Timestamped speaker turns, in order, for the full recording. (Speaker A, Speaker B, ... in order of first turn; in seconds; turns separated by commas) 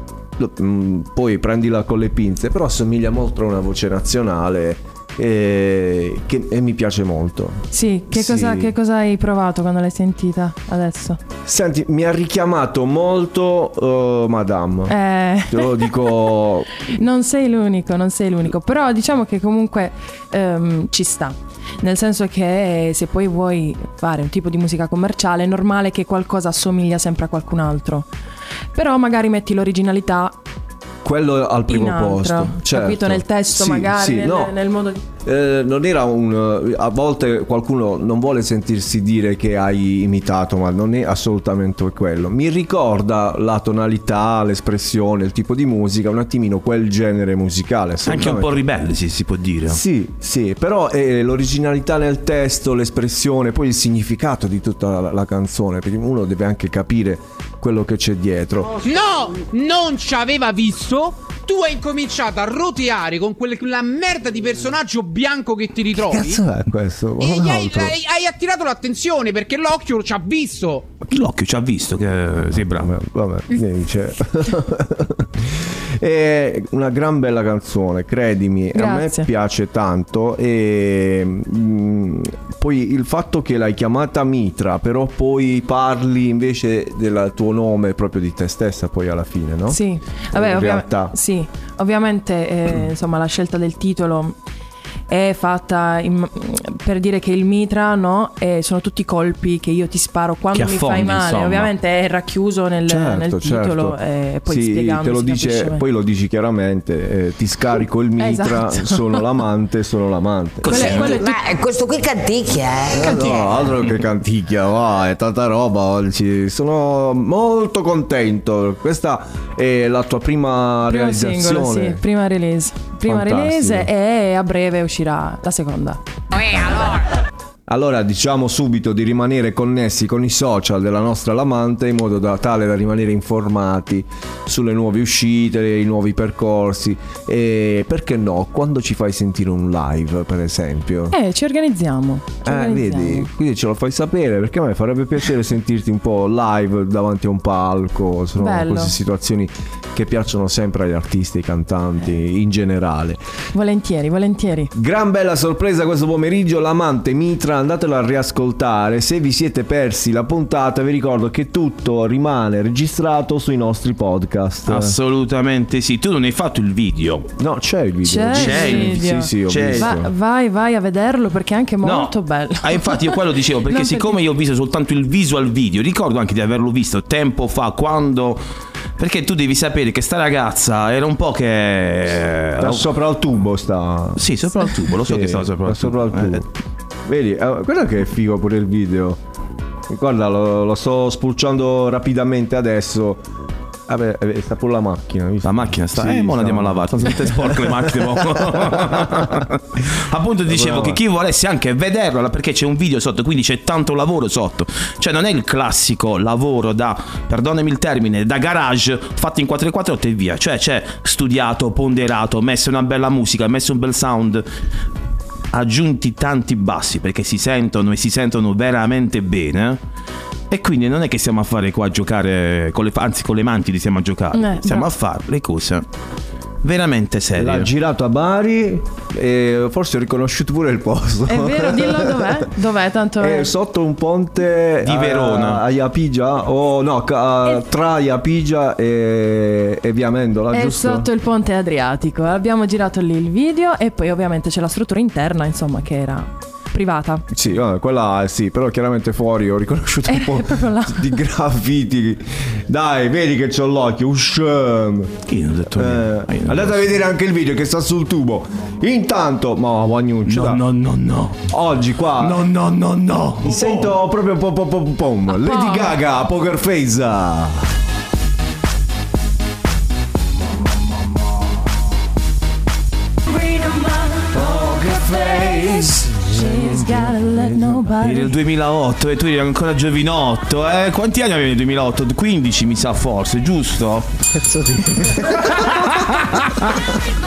Speaker A: 0.4-8.7, Speaker B: 7.7-11.2, Speaker A: 11.4-15.0, Speaker B: 14.9-15.9, Speaker A: 15.5-16.7, Speaker B: 16.9-28.1, Speaker B: 28.7-30.4, Speaker A: 31.0-34.5, Speaker B: 31.7-35.0, Speaker A: 35.2-48.5, Speaker C: 48.0-49.8, Speaker A: 49.7-58.8, Speaker D: 58.8-66.4, Speaker A: 65.9-68.0, Speaker D: 67.2-70.9, Speaker C: 71.1-72.9, Speaker A: 72.7-89.8, Speaker B: 78.7-79.3, Speaker B: 89.7-94.4, Speaker A: 90.3-91.1, Speaker B: 95.1-105.8, Speaker C: 100.5-101.7, Speaker A: 102.9-111.1, Speaker B: 108.2-109.2, Speaker C: 110.6-111.2, Speaker B: 110.7-111.4, Speaker E: 111.1-113.3, Speaker A: 112.9-122.0, Speaker B: 120.8-126.0, Speaker A: 123.0-123.9, Speaker A: 127.7-141.1, Speaker B: 141.1-143.3, Speaker A: 142.4-153.2, Speaker B: 148.4-148.9, Speaker B: 153.5-154.7, Speaker A: 154.7-164.9, Speaker C: 164.7-167.3, Speaker A: 167.4-170.1, Speaker B: 168.1-174.2, Speaker C: 168.3-169.9, Speaker C: 171.8-178.4, Speaker C: 179.0-182.8, Speaker A: 182.6-184.2, Speaker C: 184.2-186.4, Speaker A: 184.9-186.5, Speaker A: 187.1-189.2, Speaker A: 189.9-193.2, Speaker A: 193.9-199.4, Speaker C: 195.4-214.4, Speaker A: 200.5-201.0, Speaker C: 215.5-219.8, Speaker C: 220.5-225.8, Speaker B: 224.3-224.9, Speaker C: 226.6-227.7, Speaker A: 227.4-232.4, Speaker B: 231.3-233.5, Speaker A: 233.2-241.1, Speaker C: 234.8-235.6, Speaker B: 240.5-247.2, Speaker A: 247.3-260.6, Speaker B: 250.1-251.2, Speaker C: 255.3-256.9, Speaker C: 260.3-261.5, Speaker A: 261.5-262.4, Speaker C: 262.2-264.0, Speaker A: 263.4-267.7, Speaker B: 265.4-265.9, Speaker B: 273.4-274.2, Speaker A: 274.3-277.9, Speaker B: 275.4-278.3, Speaker C: 278.0-284.1, Speaker A: 284.3-286.1, Speaker C: 285.5-286.5